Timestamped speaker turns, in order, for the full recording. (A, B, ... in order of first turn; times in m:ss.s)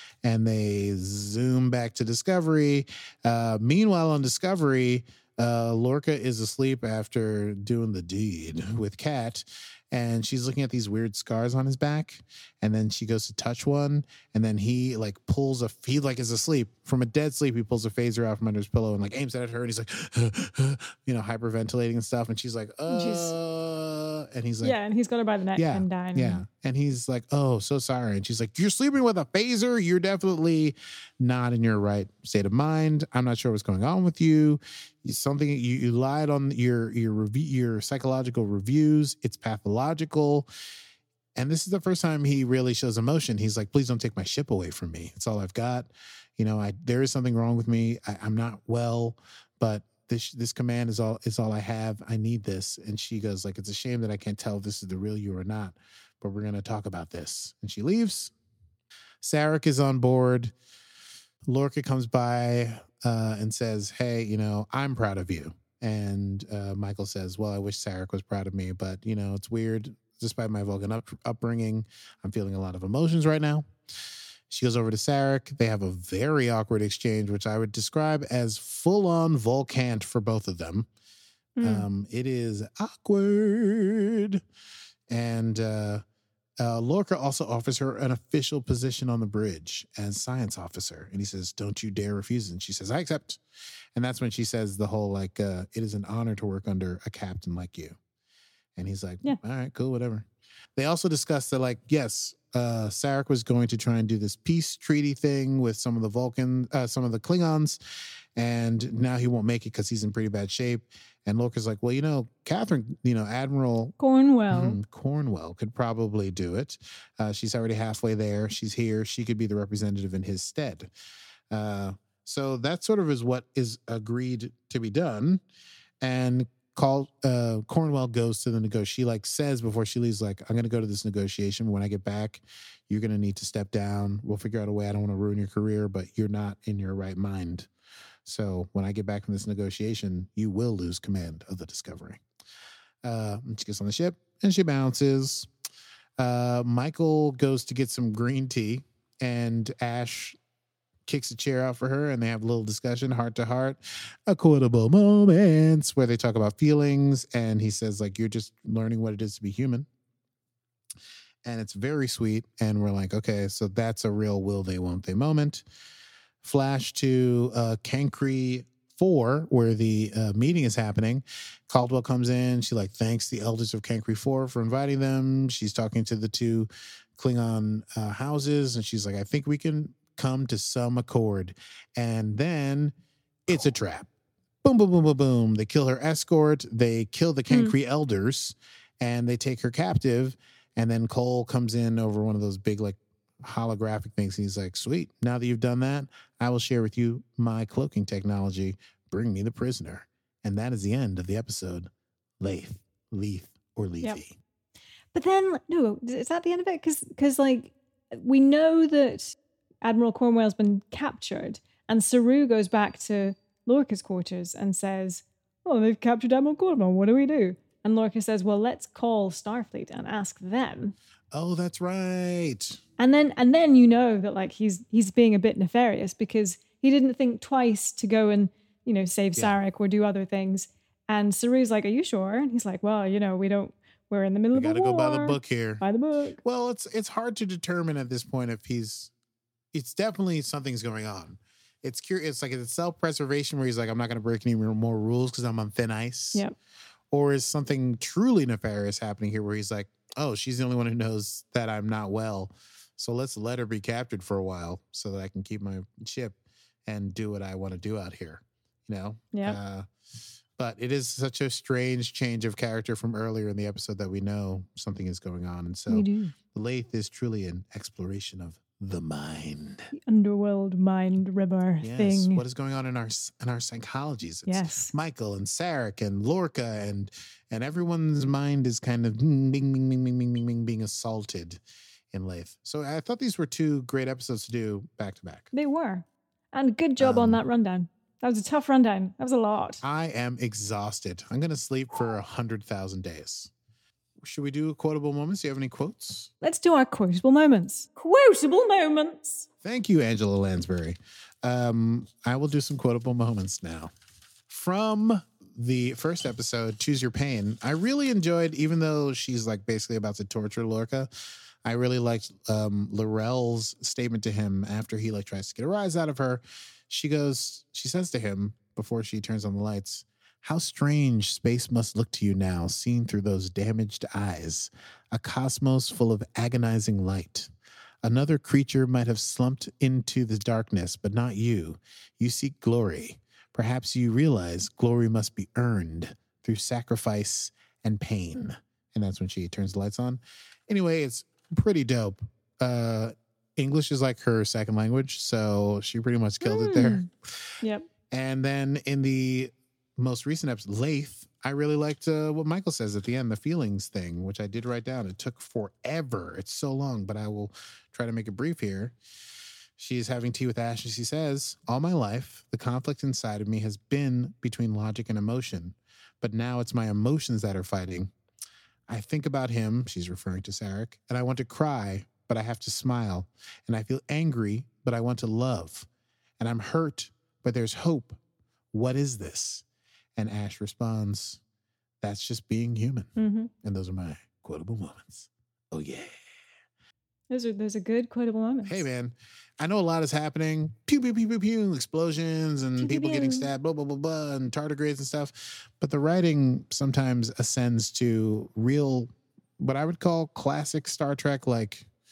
0:00.2-0:24.8 A
0:22.9-0:23.3 B
0:24.6-0:26.4 B
0:25.6-0:40.5 A
0:41.4-0:58.3 A
0:59.2-1:00.5 A
1:01.5-1:13.7 A
1:14.5-1:20.9 A
1:21.6-1:21.8 B
1:21.6-1:24.4 A
1:25.1-1:26.0 A
1:26.6-1:33.4 A
1:33.9-1:38.0 A
1:38.8-1:47.8 A
1:48.4-1:54.0 A
1:54.0-1:54.8 B
1:54.5-2:00.9 A
2:01.5-2:05.4 A
2:06.0-2:17.7 A
2:18.2-2:22.2 A
2:23.0-2:25.5 A
2:26.2-2:30.4 A
2:31.1-2:39.9 A
2:41.4-2:45.6 A
2:46.4-3:02.9 A
3:03.5-3:04.1 A
3:04.6-3:21.9 A
3:07.5-3:07.7 B
3:22.4-3:24.4 A
3:25.1-3:40.9 B
3:41.3-3:42.8 A
3:43.0-3:56.4 B
3:54.5-3:55.8 A
3:56.4-3:59.1 A
3:59.7-4:06.4 A
4:07.1-4:19.8 A
4:19.3-4:19.6 B
4:20.6-4:29.9 A
4:25.9-4:26.3 B
4:29.9-4:32.4 B
4:31.8-4:41.6 A
4:34.5-4:34.9 B
4:42.1-4:45.5 A
4:45.5-4:49.8 B
4:47.0-4:47.4 A
4:49.8-4:53.5 A
4:54.2-4:56.3 A
4:56.4-4:59.5 B
4:59.6-5:03.9 A
5:04.5-5:11.1 A
5:11.6-5:27.5 A
5:28.0-5:47.1 A
5:46.4-5:47.1 B
5:47.6-5:47.9 B
5:48.1-5:58.9 A
5:59.8-6:08.1 A
6:08.9-6:15.9 A
6:16.4-6:18.2 A
6:18.7-6:19.6 A
6:20.2-6:21.4 A
6:22.0-6:26.1 A
6:23.2-6:23.5 B
6:27.3-6:28.8 B
6:28.6-6:41.9 A
6:32.8-6:33.5 B